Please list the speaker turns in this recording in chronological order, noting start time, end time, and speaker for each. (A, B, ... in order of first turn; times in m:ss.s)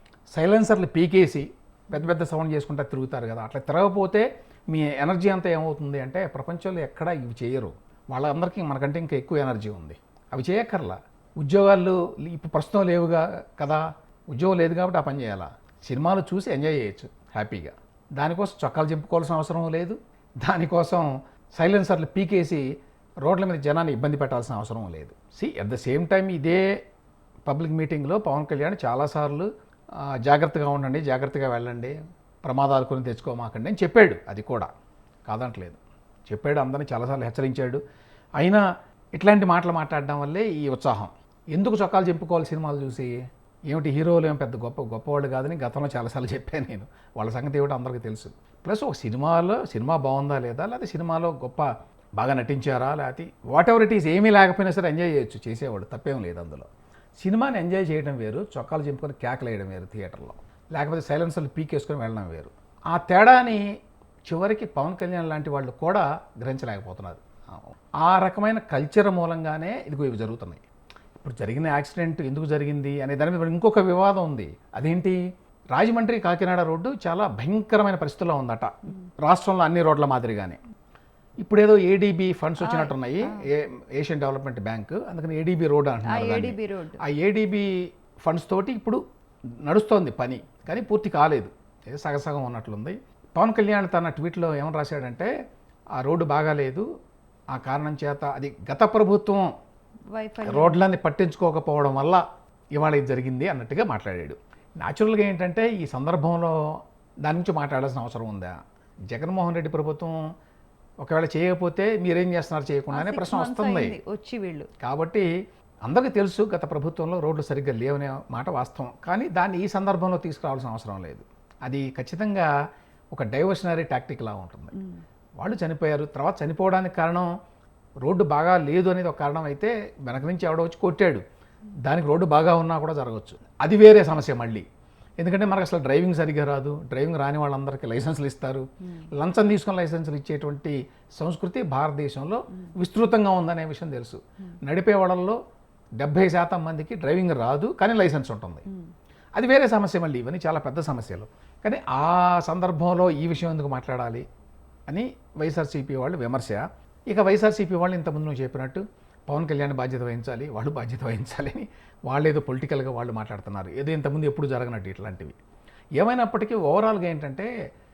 0:00.3-0:22.7 A
0:23.2-0:26.8 A
0:27.5-0:34.7 A
0:35.3-0:37.8 A
0:38.4-0:38.6 A
0:39.2-1:03.7 A
1:04.3-1:10.6 A
1:11.2-1:15.2 A
1:15.7-1:20.6 A
1:21.4-1:29.0 A
1:22.6-1:23.4 B
1:26.0-1:27.0 B
1:29.6-1:35.3 A
1:36.0-1:36.9 A
1:37.5-1:39.5 A
1:40.1-1:40.8 B
1:40.4-1:42.2 A
1:42.8-1:48.5 A
1:49.1-1:50.2 A
1:51.0-1:54.0 A
1:52.9-1:54.7 B
1:54.8-1:55.3 A
1:55.9-2:02.5 A
2:03.1-2:04.7 A
2:04.8-2:05.0 B
2:05.4-2:07.3 A
2:08.0-2:11.2 A
2:11.8-2:14.7 A
2:15.2-2:25.4 A
2:26.0-2:28.6 A
2:29.4-2:34.3 A
2:34.9-2:45.4 A
2:46.0-2:47.5 A